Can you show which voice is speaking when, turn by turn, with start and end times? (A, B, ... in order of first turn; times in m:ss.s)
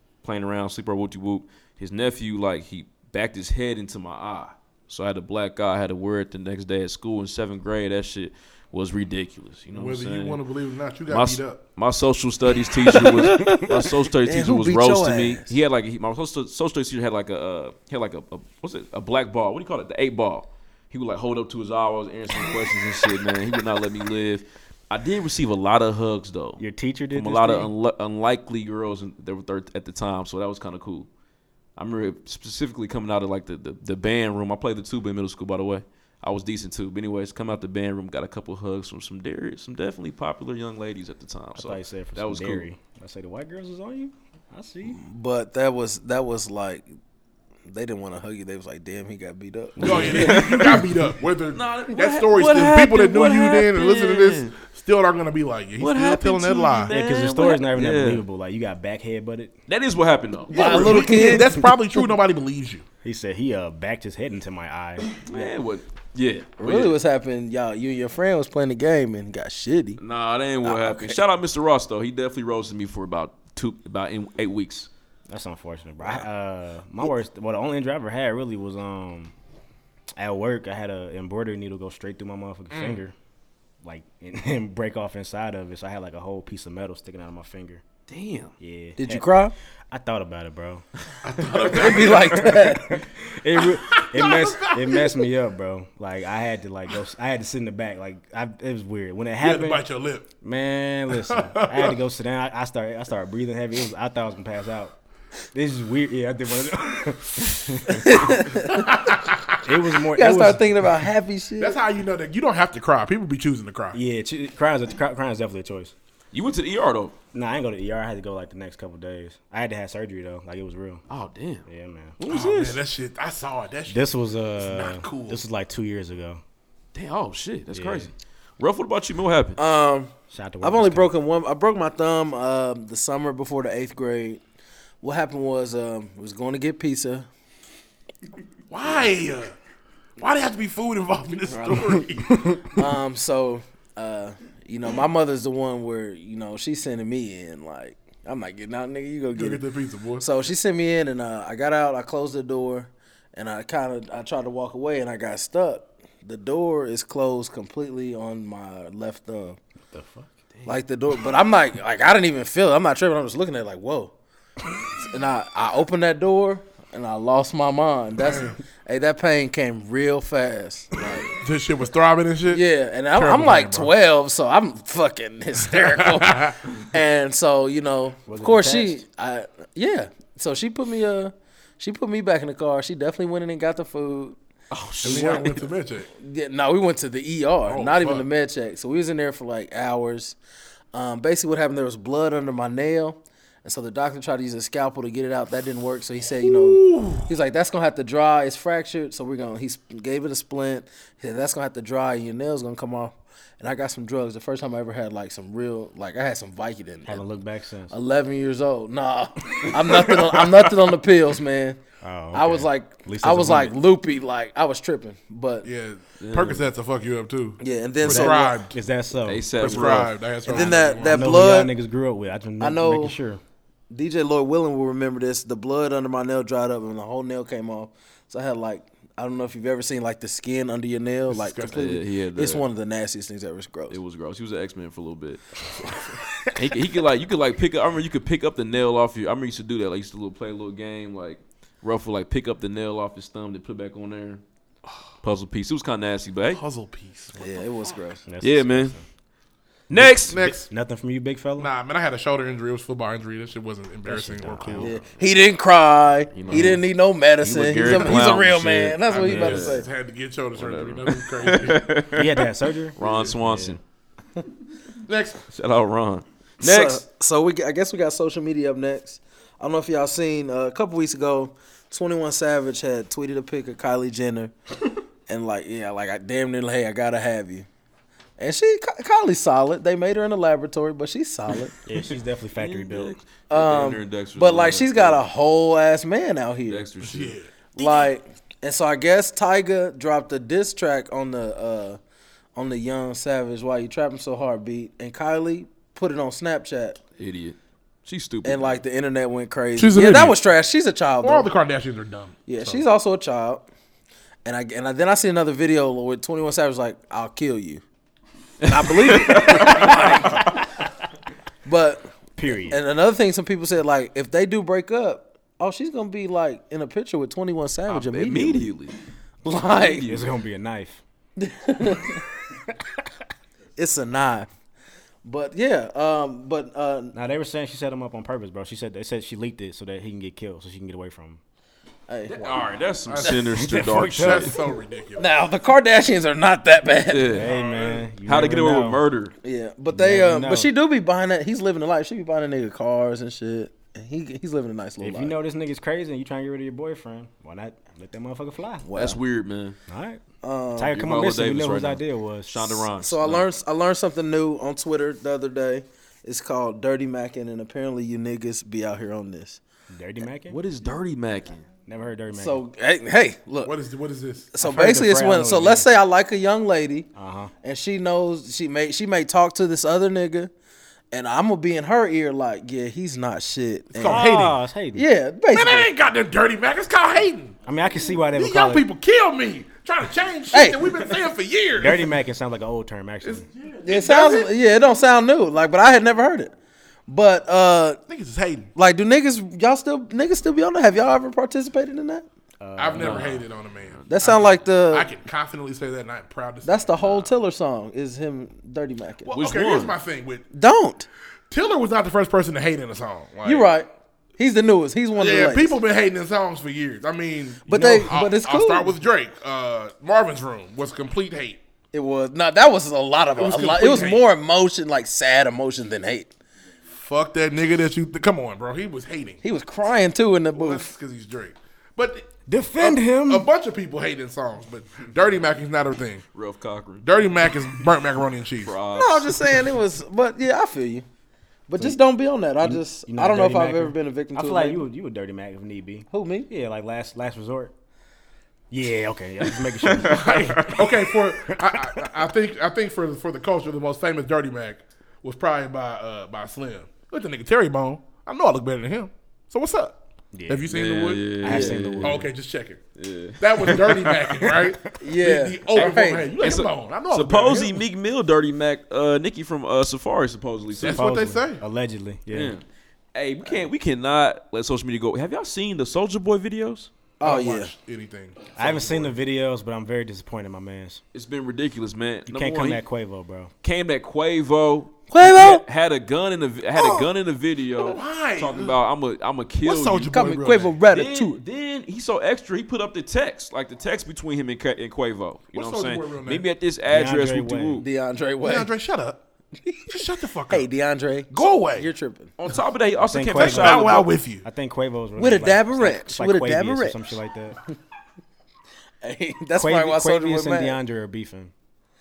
0:00.2-0:10.4 A
0:09.7-0:11.6 B
0:11.1-0:26.6 A
0:12.9-0:15.5 C
0:26.6-0:27.7 D
0:27.1-0:31.1 A
0:31.8-0:42.7 A
0:41.6-0:45.0 D
0:44.8-0:46.9 C
0:47.7-0:50.4 C
0:49.8-0:50.8 D
0:49.8-0:56.9 B
0:49.8-0:50.8 A
0:51.5-0:54.6 A
0:55.8-0:58.2 A
0:56.9-0:59.5 D
0:59.7-1:01.1 A
1:00.5-1:02.8 B
1:00.5-1:02.0 C
1:01.4-1:01.7 D
1:03.0-1:05.5 D
1:05.2-1:07.0 A
1:06.6-1:10.0 C
1:10.0-1:14.9 A
1:10.6-1:11.2 C
1:15.3-1:19.3 D
1:20.2-1:23.1 D
1:22.7-1:23.0 B
1:23.8-1:27.8 D
1:28.1-1:28.5 A
1:28.6-1:29.3 D
1:29.0-1:29.5 C
1:29.9-1:30.8 D
1:31.2-1:32.5 B
1:31.6-1:39.8 D
1:31.7-1:33.0 C
1:33.6-1:35.3 B
1:39.4-1:40.3 B
1:40.4-1:45.0 D
1:41.1-1:42.0 B
1:45.5-1:48.4 D
1:47.9-1:49.0 C
1:48.7-1:49.6 B
1:49.6-1:50.8 D
1:50.1-1:51.8 C
1:51.6-1:54.0 B
1:53.9-1:55.9 D
1:56.3-1:57.2 A
1:57.3-2:01.0 D
2:01.1-2:01.7 A
2:01.7-2:02.2 D
2:02.2-2:02.8 A
2:02.3-2:05.4 B
2:03.9-2:06.4 D
2:06.9-2:09.6 A
2:07.7-2:08.1 D
2:09.6-2:14.4 C
2:10.3-2:11.1 D
2:15.0-2:17.3 C
2:18.7-2:19.6 B
2:20.2-2:22.7 B
2:21.5-2:22.1 C
2:22.6-2:29.6 C
2:29.3-2:30.3 B
2:30.2-2:39.6 C
2:39.9-2:40.3 D
2:40.6-2:44.1 C
2:44.9-2:51.3 C
2:48.3-2:48.6 B
2:51.4-2:52.6 B
2:52.5-3:04.4 C
2:53.2-2:53.9 B
2:55.8-2:56.6 B
2:58.3-2:59.0 D
3:04.7-3:05.6 A
3:05.0-3:06.1 B
3:05.0-3:05.5 C
3:06.1-3:10.4 C
3:07.7-3:08.3 B
3:10.9-3:27.3 C
3:16.4-3:17.3 B
3:27.1-3:27.9 D
3:27.9-3:31.8 C
3:32.0-3:33.8 D
3:32.3-3:35.7 C
3:35.6-3:38.8 B
3:36.2-3:36.7 A
3:37.6-3:38.6 C
3:38.0-3:43.4 D
3:39.2-3:40.1 A
3:39.6-3:41.5 B
3:40.4-3:41.7 C
3:42.6-3:43.2 C
3:43.9-3:54.0 C
3:51.3-3:51.8 B
3:51.7-3:52.6 A
3:53.9-3:55.4 A
3:55.9-3:56.5 B
3:56.6-4:04.4 A
4:05.2-4:06.6 A
4:06.5-4:07.5 B
4:07.3-4:08.2 C
4:08.3-4:09.0 D
4:08.4-4:09.0 A
4:09.9-4:10.4 A
4:09.9-4:11.7 D
4:10.3-4:10.7 B
4:11.6-4:14.9 B
4:14.0-4:15.0 D
4:14.8-4:19.9 C
4:16.3-4:16.8 A
4:17.4-4:19.8 A
4:19.1-4:22.0 B
4:20.6-4:23.8 A
4:22.1-4:23.8 D
4:23.0-4:23.4 B
4:25.1-4:25.4 B
4:25.5-4:27.0 A
4:26.6-4:34.5 C
4:35.3-4:37.7 C
4:38.4-4:41.7 C
4:41.9-4:43.2 D
4:42.6-4:45.2 A
4:43.5-4:46.9 C
4:46.7-4:47.4 A
4:47.0-4:47.5 B
4:47.8-4:52.0 C
4:52.6-4:57.0 C
4:57.2-4:58.8 A
4:58.4-5:01.5 C
4:59.8-5:00.4 B
5:01.2-5:02.8 B
5:02.5-5:03.7 C
5:04.4-5:07.8 C
5:08.6-5:10.0 A
5:08.7-5:10.6 C
5:09.4-5:10.6 D
5:11.6-5:18.7 C
5:12.4-5:12.8 D
5:17.9-5:19.0 A
5:19.4-5:20.1 C
5:19.7-5:20.3 A
5:20.1-5:21.0 D
5:21.4-5:22.2 C
5:23.8-5:24.5 C
5:25.2-5:27.2 C
5:27.1-5:31.4 D
5:32.1-5:32.7 C
5:32.3-5:34.5 A
5:33.1-5:35.3 B
5:33.6-5:34.6 D
5:35.2-5:37.5 C
5:37.1-5:37.5 A
5:37.3-5:39.0 D
5:37.5-5:38.1 B
5:38.2-5:39.3 A
5:39.4-5:45.4 C
5:39.9-5:40.7 D
5:45.0-5:48.9 D
5:48.8-5:49.2 C
5:49.0-5:49.8 A
5:49.9-5:50.2 D
5:50.4-5:51.0 C
5:50.8-5:52.9 D
5:50.9-5:53.5 A
5:53.0-5:59.6 C
5:59.9-6:00.6 D
6:00.5-6:01.7 A
6:01.9-6:02.6 D
6:02.3-6:03.8 C
6:03.6-6:04.5 B
6:04.5-6:07.1 C
6:04.6-6:05.9 D
6:07.2-6:07.5 D
6:07.6-6:10.5 C
6:11.1-6:14.3 C
6:13.9-6:14.6 B
6:14.0-6:15.0 D
6:15.0-6:15.9 C
6:15.5-6:17.6 B
6:17.7-6:18.9 D
6:18.4-6:22.2 B
6:20.5-6:21.0 C
6:21.8-6:23.5 D
6:23.2-6:24.5 B
6:23.8-6:26.5 C
6:27.1-6:28.0 C
6:28.1-6:28.7 B
6:28.8-6:32.3 C
6:32.6-6:33.4 D
6:32.8-6:37.1 B
6:32.9-6:34.5 A
6:34.1-6:35.1 C
6:36.6-6:39.3 C
6:39.2-6:40.4 B
6:39.3-6:40.0 A
6:40.5-6:41.1 C
6:41.5-6:43.7 B
6:43.4-6:45.8 C
6:45.2-6:51.6 B
6:47.7-6:49.0 C
6:47.8-6:48.1 D
6:51.9-6:56.3 C
6:53.4-6:54.3 B
6:57.0-6:59.4 B
6:59.4-7:00.9 C
7:00.6-7:06.2 B
7:02.5-7:03.5 D
7:06.3-7:07.1 A
7:07.0-7:08.8 B
7:08.6-7:09.4 A
7:08.9-7:11.1 C
7:11.7-7:14.9 C
7:12.6-7:17.7 D
7:16.1-7:16.5 C
7:18.7-7:22.1 D
7:20.0-7:30.0 B
7:30.3-7:30.7 D
7:30.5-7:31.3 B
7:30.7-7:32.2 A
7:31.4-7:32.3 D
7:31.4-7:31.8 C
7:32.0-7:32.8 B
7:33.0-7:34.6 A
7:33.4-7:37.8 B
7:35.0-7:36.4 C
7:35.8-7:41.1 A
7:40.8-7:41.6 B
7:40.9-7:42.6 D
7:42.3-7:46.9 A
7:47.2-7:47.7 C
7:47.2-7:49.2 B
7:48.6-7:51.0 D
7:51.1-7:52.8 A
7:52.3-7:53.5 D
7:53.6-8:00.2 A
7:55.1-7:55.6 C
7:56.8-7:57.1 C
7:57.8-7:58.8 B
7:59.6-8:00.8 B
8:00.1-8:01.4 C
8:00.9-8:07.9 A
8:05.5-8:06.5 B
8:06.9-8:07.8 D
8:07.8-8:08.7 C
8:08.4-8:09.2 B
8:09.6-8:12.3 C
8:09.9-8:10.7 B
8:11.3-8:11.9 B
8:12.4-8:14.1 A
8:13.0-8:17.6 D
8:13.4-8:14.4 B
8:15.2-8:17.0 C
8:19.0-8:20.8 C
8:19.6-8:21.5 D